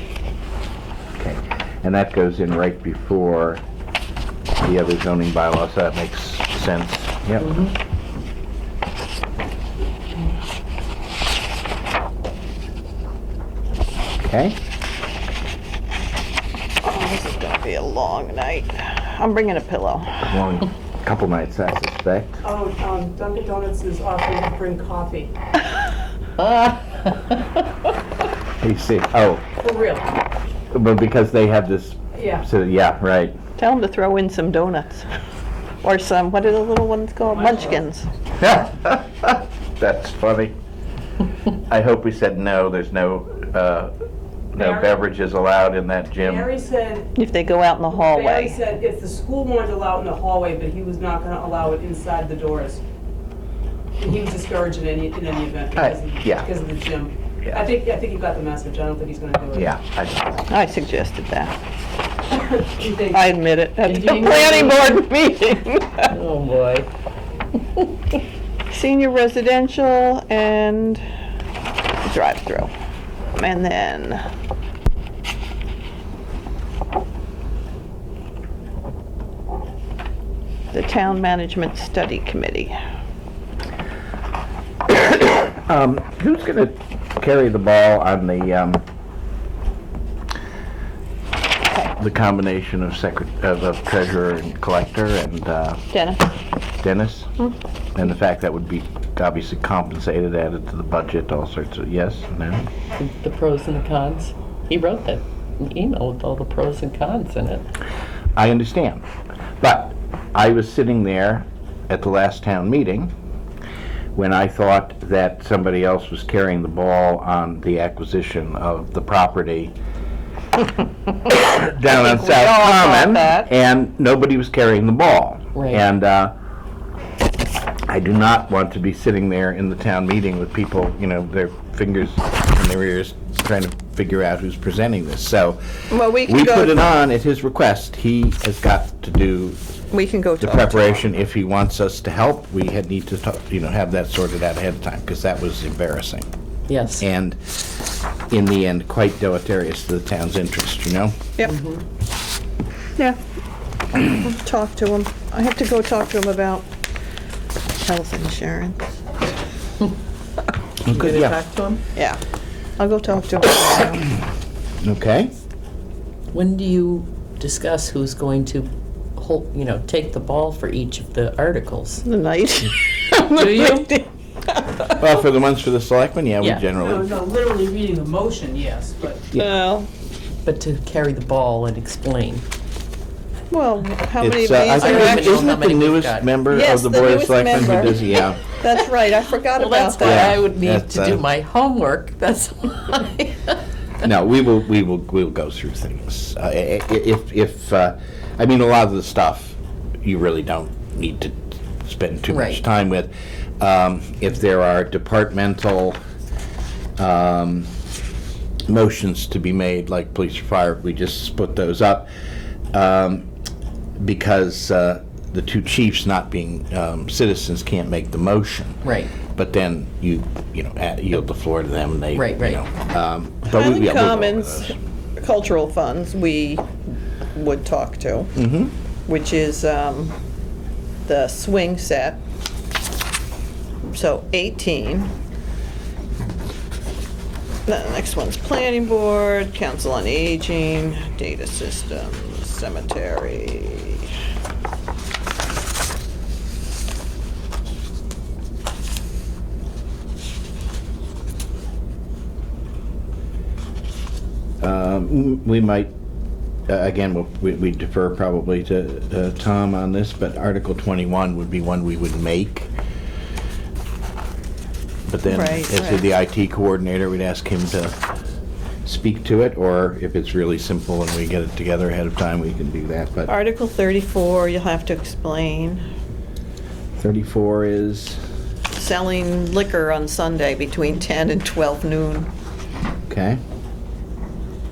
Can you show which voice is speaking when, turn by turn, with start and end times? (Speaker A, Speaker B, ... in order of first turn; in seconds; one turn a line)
Speaker A: 1.2-3.6
Speaker A: 4.6-7.6
Speaker B: 7.4-7.7
Speaker A: 14.2-14.6
Speaker C: 16.8-20.3
Speaker A: 20.2-22.4
Speaker D: 22.4-25.3
Speaker B: 26.4-27.4
Speaker A: 28.6-29.4
Speaker D: 29.6-30.1
Speaker A: 30.7-33.3
Speaker D: 32.1-32.4
Speaker C: 33.6-35.1
Speaker C: 35.8-38.1
Speaker D: 37.3-37.8
Speaker A: 38.4-40.5
Speaker A: 41.7-43.9
Speaker A: 44.5-46.5
Speaker D: 44.5-45.0
Speaker D: 46.2-47.1
Speaker C: 47.1-48.6
Speaker D: 47.9-52.8
Speaker D: 54.0-59.7
Speaker A: 55.8-56.5
Speaker A: 59.5-60.4
Speaker C: 60.5-61.5
Speaker D: 62.3-64.8
Speaker C: 63.1-66.1
Speaker B: 64.1-64.9
Speaker B: 66.1-66.9
Speaker C: 68.7-71.0
Speaker C: 72.0-72.7
Speaker C: 73.3-74.2
Speaker C: 80.7-82.8
Speaker A: 84.9-88.8
Speaker A: 92.0-95.8
Speaker C: 95.9-96.3
Speaker A: 96.8-97.3
Speaker A: 97.9-102.7
Speaker B: 103.0-107.7
Speaker A: 108.3-109.0
Speaker A: 109.6-113.1
Speaker A: 114.1-119.7
Speaker A: 121.3-126.3
Speaker C: 121.8-123.5
Speaker B: 125.5-125.8
Speaker A: 127.9-139.6
Speaker C: 135.9-136.8
Speaker C: 139.9-140.9
Speaker A: 140.4-146.3
Speaker B: 146.7-147.0
Speaker A: 147.0-147.4
Speaker A: 148.3-151.2
Speaker B: 151.4-151.8
Speaker C: 154.0-156.7
Speaker C: 157.8-158.8
Speaker A: 160.8-161.4
Speaker B: 160.9-161.8
Speaker C: 162.8-164.2
Speaker A: 164.8-165.3
Speaker B: 166.3-172.0
Speaker C: 172.0-175.0
Speaker B: 173.2-173.9
Speaker A: 175.0-177.1
Speaker B: 176.4-176.6
Speaker D: 176.8-179.2
Speaker C: 179.3-179.9
Speaker B: 180.4-182.4
Speaker C: 183.5-185.6
Speaker A: 184.2-188.4
Speaker B: 184.7-186.3
Speaker C: 186.5-190.4
Speaker B: 189.6-193.6
Speaker A: 190.0-191.2
Speaker A: 194.0-206.0
Speaker B: 202.3-202.6
Speaker A: 207.0-207.7
Speaker A: 208.7-212.1
Speaker A: 212.7-213.3
Speaker A: 214.0-224.8
Speaker B: 218.8-219.1
Speaker B: 222.1-222.6
Speaker C: 223.5-226.6
Speaker C: 227.3-228.3
Speaker A: 228.3-228.7
Speaker C: 229.1-230.1
Speaker C: 231.0-232.2
Speaker C: 233.9-235.1
Speaker C: 237.7-244.1
Speaker A: 254.6-255.9
Speaker A: 256.7-262.7
Speaker A: 265.1-268.0
Speaker C: 265.3-266.0
Speaker A: 268.8-273.3
Speaker C: 273.3-275.8
Speaker A: 277.0-278.2
Speaker C: 278.7-282.3
Speaker A: 283.1-283.4